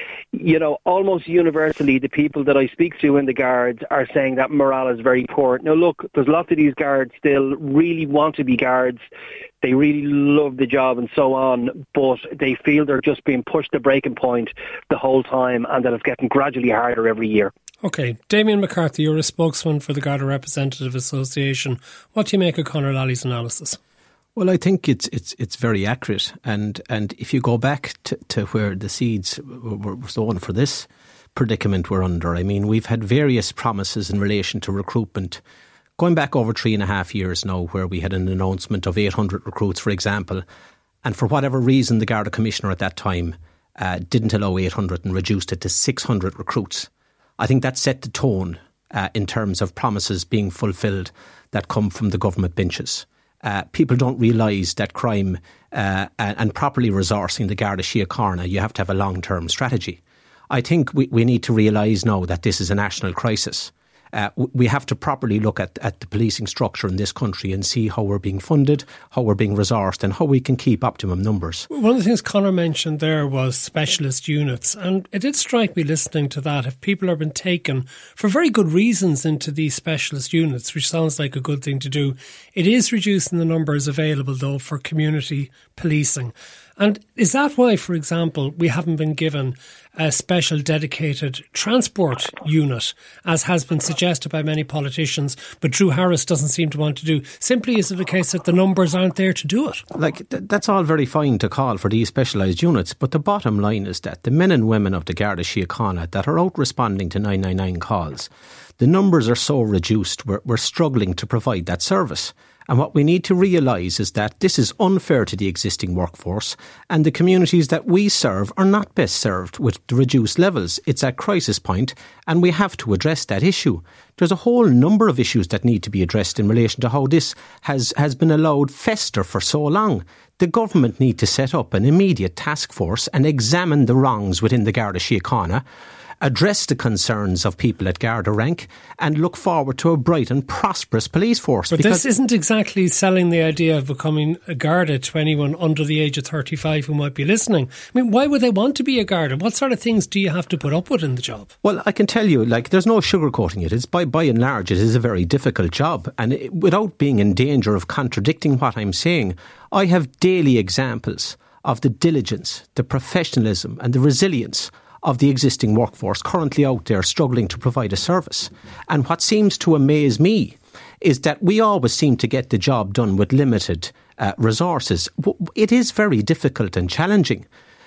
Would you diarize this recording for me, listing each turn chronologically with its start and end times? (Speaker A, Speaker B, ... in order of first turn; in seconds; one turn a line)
Speaker A: 0.3-9.0
Speaker A: 9.6-17.5
Speaker B: 17.8-23.8
Speaker C: 24.4-35.4
Speaker C: 36.0-40.4
Speaker C: 41.0-71.7
Speaker B: 71.7-99.8
Speaker C: 99.9-135.6
Speaker C: 136.2-142.0
Speaker B: 141.7-151.5
Speaker C: 151.6-177.5